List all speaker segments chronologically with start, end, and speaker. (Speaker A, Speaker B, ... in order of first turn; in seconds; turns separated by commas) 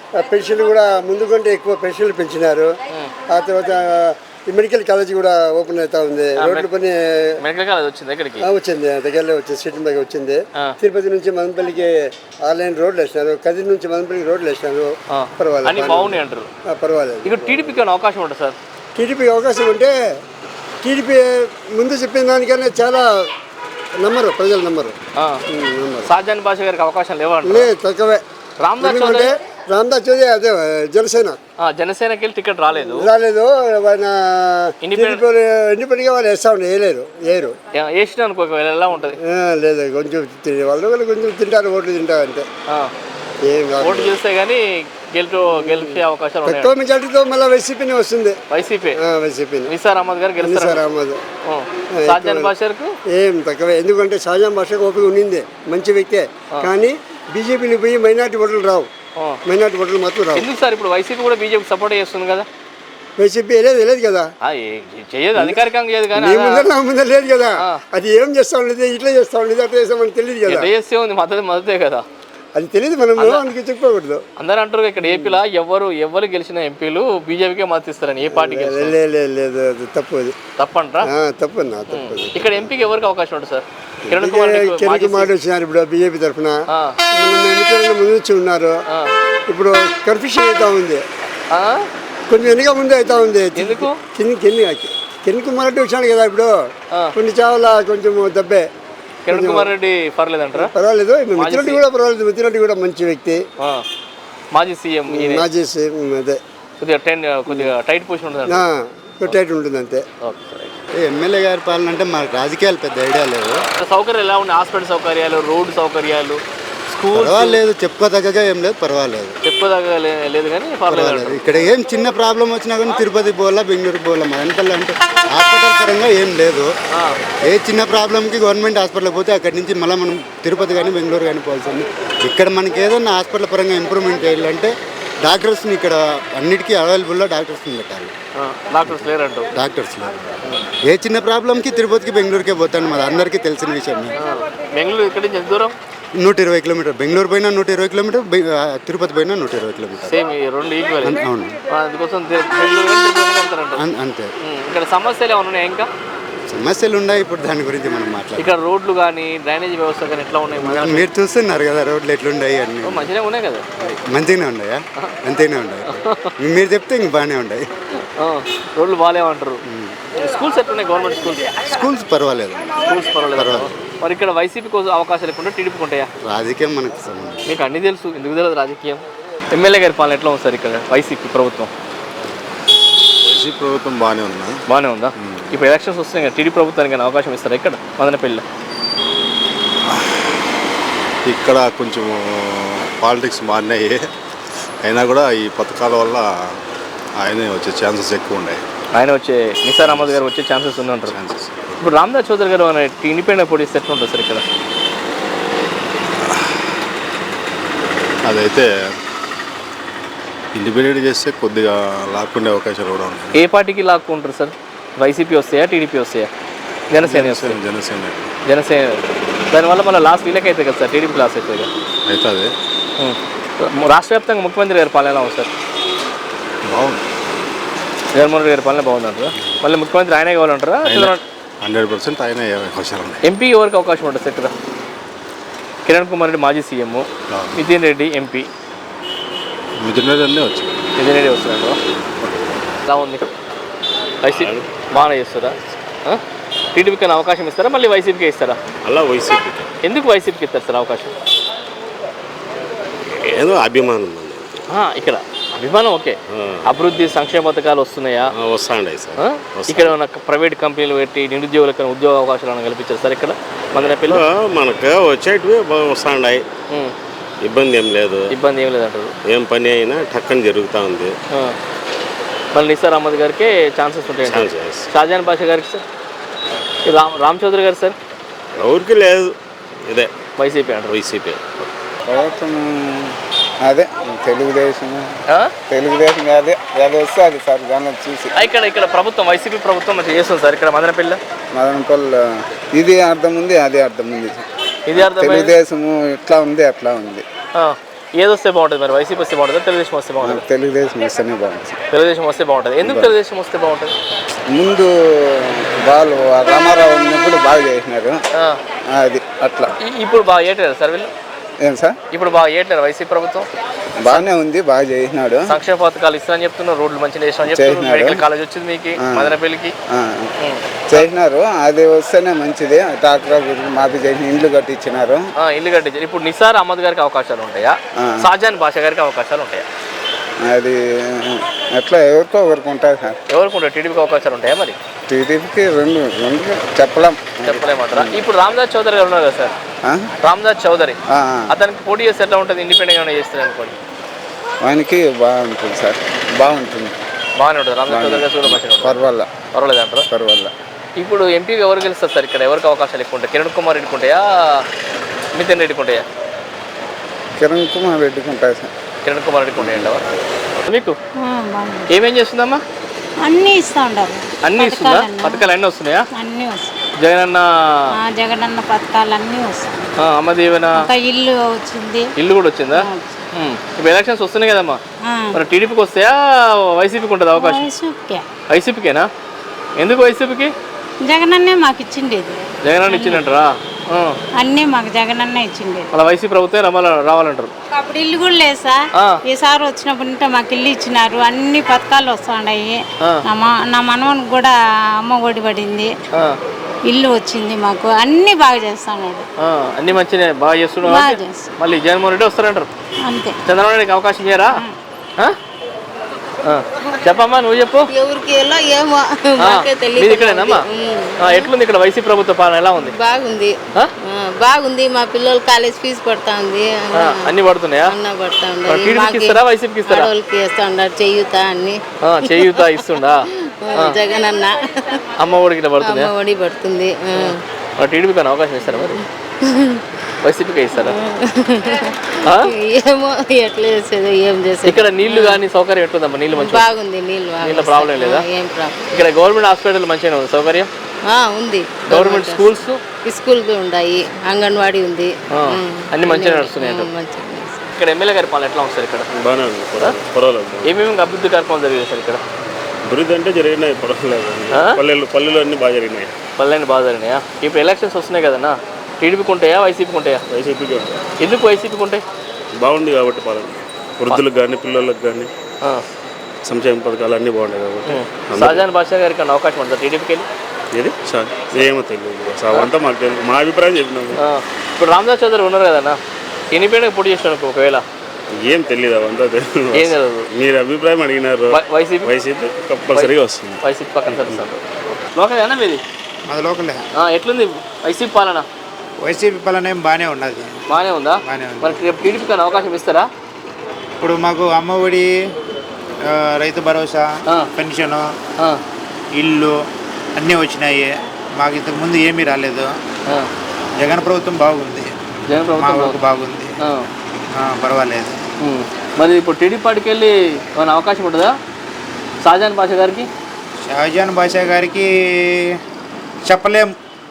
Speaker A: 0.2-2.7, Speaker A: 3.3-7.3, Speaker B: 6.4-6.7, Speaker B: 7.4-8.5, Speaker A: 8.4-17.8, Speaker B: 15.1-16.5, Speaker B: 17.2-18.6, Speaker A: 18.9-19.9, Speaker A: 20.8-23.1, Speaker A: 24.0-24.9, Speaker A: 25.5-26.1, Speaker B: 26.1-27.7, Speaker A: 27.4-28.2, Speaker B: 28.6-29.3, Speaker A: 28.8-31.4, Speaker B: 31.6-33.1, Speaker A: 32.8-37.5, Speaker B: 34.8-35.2, Speaker B: 37.7-39.2, Speaker A: 39.3-42.5, Speaker A: 43.4-44.2, Speaker B: 43.8-46.8, Speaker A: 45.6-48.4, Speaker B: 48.5-49.0, Speaker A: 49.0-49.7, Speaker B: 49.7-50.8, Speaker A: 50.4-51.2, Speaker B: 51.4-52.9, Speaker A: 52.0-52.5, Speaker A: 53.1-58.9, Speaker A: 59.5-60.5, Speaker B: 60.3-62.5, Speaker A: 63.2-64.3, Speaker B: 64.4-66.7, Speaker A: 65.3-65.6, Speaker A: 66.1-70.7, Speaker B: 70.5-72.0, Speaker A: 72.5-74.2, Speaker B: 73.2-73.5, Speaker B: 74.4-78.9, Speaker A: 75.0-75.3, Speaker A: 78.3-80.3, Speaker B: 80.6-81.1, Speaker A: 81.1-82.7, Speaker B: 81.9-85.3, Speaker A: 84.1-86.6, Speaker A: 87.1-88.7, Speaker A: 89.5-91.0, Speaker B: 91.5-91.8, Speaker A: 92.3-96.5, Speaker B: 93.6-93.9, Speaker A: 97.2-98.7, Speaker B: 99.2-100.7, Speaker A: 99.3-99.7, Speaker A: 100.5-103.4, Speaker B: 101.4-101.8, Speaker B: 104.5-105.4, Speaker A: 105.1-106.4, Speaker B: 106.8-108.7, Speaker A: 108.4-110.0, Speaker B: 110.2-110.7, Speaker C: 111.0-113.6, Speaker B: 113.8-116.4, Speaker B: 116.9-117.6, Speaker C: 117.1-119.3, Speaker B: 119.4-121.7, Speaker C: 120.9-126.7, Speaker C: 127.5-138.1, Speaker B: 138.4-139.5, Speaker C: 138.8-140.2, Speaker C: 140.8-144.2, Speaker B: 144.2-145.7, Speaker C: 146.2-150.2, Speaker B: 150.0-153.8, Speaker C: 151.0-151.6, Speaker C: 153.8-154.3, Speaker B: 154.4-155.9, Speaker C: 156.5-158.6, Speaker B: 158.4-161.1, Speaker C: 160.6-163.1, Speaker B: 162.8-163.6, Speaker C: 163.8-167.6, Speaker B: 165.9-166.3, Speaker B: 168.2-169.6, Speaker C: 169.7-170.0, Speaker B: 170.2-171.5, Speaker C: 171.6-173.7, Speaker B: 172.8-176.1, Speaker C: 176.2-177.4, Speaker B: 177.4-181.7, Speaker D: 183.2-184.6, Speaker B: 184.7-188.4, Speaker D: 191.2-192.1, Speaker D: 192.9-194.0, Speaker D: 194.8-196.2, Speaker D: 197.2-198.6, Speaker B: 198.9-201.2, Speaker D: 199.8-200.2, Speaker D: 201.1-201.8, Speaker B: 201.8-204.4, Speaker D: 208.3-208.7, Speaker D: 210.6-213.3, Speaker B: 213.3-216.3, Speaker B: 216.9-217.6, Speaker D: 217.0-218.3, Speaker B: 218.5-221.7, Speaker D: 222.1-222.5, Speaker B: 223.0-225.5, Speaker D: 226.7-227.0, Speaker B: 228.2-231.2, Speaker D: 230.8-233.2, Speaker B: 233.2-234.5, Speaker B: 235.8-238.5, Speaker D: 237.3-237.6, Speaker D: 239.8-240.7, Speaker B: 241.0-241.8, Speaker B: 242.9-243.3, Speaker B: 244.2-246.2, Speaker E: 244.2-244.7, Speaker B: 246.7-248.6, Speaker E: 248.8-249.7, Speaker B: 249.8-251.1, Speaker E: 253.1-254.6, Speaker B: 254.7-258.3, Speaker E: 256.3-256.6, Speaker E: 258.3-260.0, Speaker B: 259.2-264.2, Speaker E: 263.7-266.4, Speaker E: 267.4-268.3, Speaker B: 268.3-269.1, Speaker E: 269.2-271.1, Speaker B: 272.5-275.8, Speaker E: 274.2-274.9, Speaker B: 276.9-277.9, Speaker E: 278.6-279.3, Speaker B: 280.4-280.9, Speaker E: 280.9-281.7, Speaker F: 282.1-282.6, Speaker F: 283.6-285.0, Speaker F: 285.7-288.3, Speaker B: 288.3-291.2, Speaker F: 291.5-292.1, Speaker F: 292.8-294.4, Speaker B: 294.9-295.5, Speaker C: 295.0-295.5, Speaker F: 295.2-297.2, Speaker B: 297.6-300.4, Speaker F: 300.5-301.7, Speaker C: 301.1-301.7, Speaker B: 301.9-303.9, Speaker F: 304.5-304.9, Speaker F: 305.9-308.1, Speaker F: 309.0-309.7, Speaker B: 309.9-311.1, Speaker F: 311.6-311.9, Speaker B: 312.1-313.5, Speaker F: 314.2-315.3, Speaker B: 315.5-319.7, Speaker F: 320.0-320.2, Speaker B: 320.4-321.1, Speaker F: 320.9-325.2, Speaker C: 322.1-322.5, Speaker B: 325.4-329.7, Speaker F: 330.5-330.8, Speaker F: 331.3-333.1, Speaker B: 333.3-334.8, Speaker F: 335.1-337.3, Speaker B: 337.4-339.5, Speaker B: 340.2-341.0, Speaker B: 341.5-343.8, Speaker F: 344.6-346.9, Speaker B: 347.4-350.1, Speaker C: 347.9-348.9, Speaker F: 350.1-350.5, Speaker B: 351.0-354.6, Speaker B: 355.4-356.0, Speaker F: 357.4-358.6, Speaker B: 359.0-360.0, Speaker B: 360.6-360.9, Speaker G: 361.2-361.9, Speaker B: 361.9-362.6, Speaker G: 363.2-365.5, Speaker B: 364.4-366.0, Speaker G: 366.1-366.7, Speaker B: 367.0-367.4, Speaker G: 368.0-369.9, Speaker B: 370.0-370.9, Speaker G: 370.8-372.1, Speaker B: 372.2-374.8, Speaker G: 372.7-373.2, Speaker G: 375.0-375.4, Speaker B: 375.3-377.6, Speaker G: 377.3-378.2, Speaker B: 378.5-379.1, Speaker B: 379.8-380.5, Speaker G: 381.0-383.2, Speaker B: 382.6-384.2, Speaker G: 384.4-385.9, Speaker B: 385.9-387.5, Speaker G: 387.7-395.9, Speaker G: 396.9-399.2, Speaker B: 399.4-402.7, Speaker G: 400.8-401.5, Speaker G: 403.0-403.4, Speaker B: 403.4-404.6, Speaker B: 406.4-407.9, Speaker H: 407.9-411.5, Speaker B: 409.4-410.6, Speaker B: 411.2-412.9, Speaker H: 412.7-423.0, Speaker B: 416.9-417.9, Speaker B: 418.7-420.1, Speaker B: 422.0-423.3, Speaker H: 423.6-424.9, Speaker B: 425.2-426.1, Speaker H: 425.8-427.4, Speaker B: 427.2-429.0, Speaker H: 428.6-429.8, Speaker B: 430.2-430.9, Speaker H: 430.8-435.4, Speaker B: 432.2-432.5, Speaker B: 434.6-436.7, Speaker H: 436.3-438.8, Speaker B: 437.4-438.2, Speaker B: 438.9-440.7, Speaker H: 441.1-447.6, Speaker B: 441.9-442.8, Speaker B: 445.3-446.9, Speaker B: 447.8-449.1, Speaker E: 449.1-450.8, Speaker B: 450.6-452.2, Speaker E: 452.8-456.1, Speaker B: 454.5-454.8, Speaker B: 456.4-460.2, Speaker E: 460.3-460.9, Speaker B: 461.2-462.0, Speaker E: 462.6-465.3, Speaker E: 466.4-468.6, Speaker B: 467.9-470.3, Speaker E: 470.7-474.2, Speaker B: 474.2-476.0, Speaker B: 476.5-477.8, Speaker E: 478.4-484.4, Speaker B: 479.7-480.3, Speaker B: 481.5-482.1, Speaker B: 482.9-485.8, Speaker I: 486.3-486.8, Speaker B: 487.0-488.5, Speaker I: 489.0-490.5, Speaker B: 490.7-493.1, Speaker I: 491.2-491.7, Speaker I: 494.0-495.1, Speaker I: 496.1-498.1, Speaker I: 499.1-499.5, Speaker I: 500.2-502.7, Speaker I: 503.8-504.9, Speaker B: 505.3-506.0, Speaker I: 505.6-506.5, Speaker B: 506.6-506.9, Speaker I: 507.4-508.2, Speaker B: 508.4-511.4, Speaker B: 512.2-513.1, Speaker I: 513.7-514.9, Speaker I: 516.3-516.7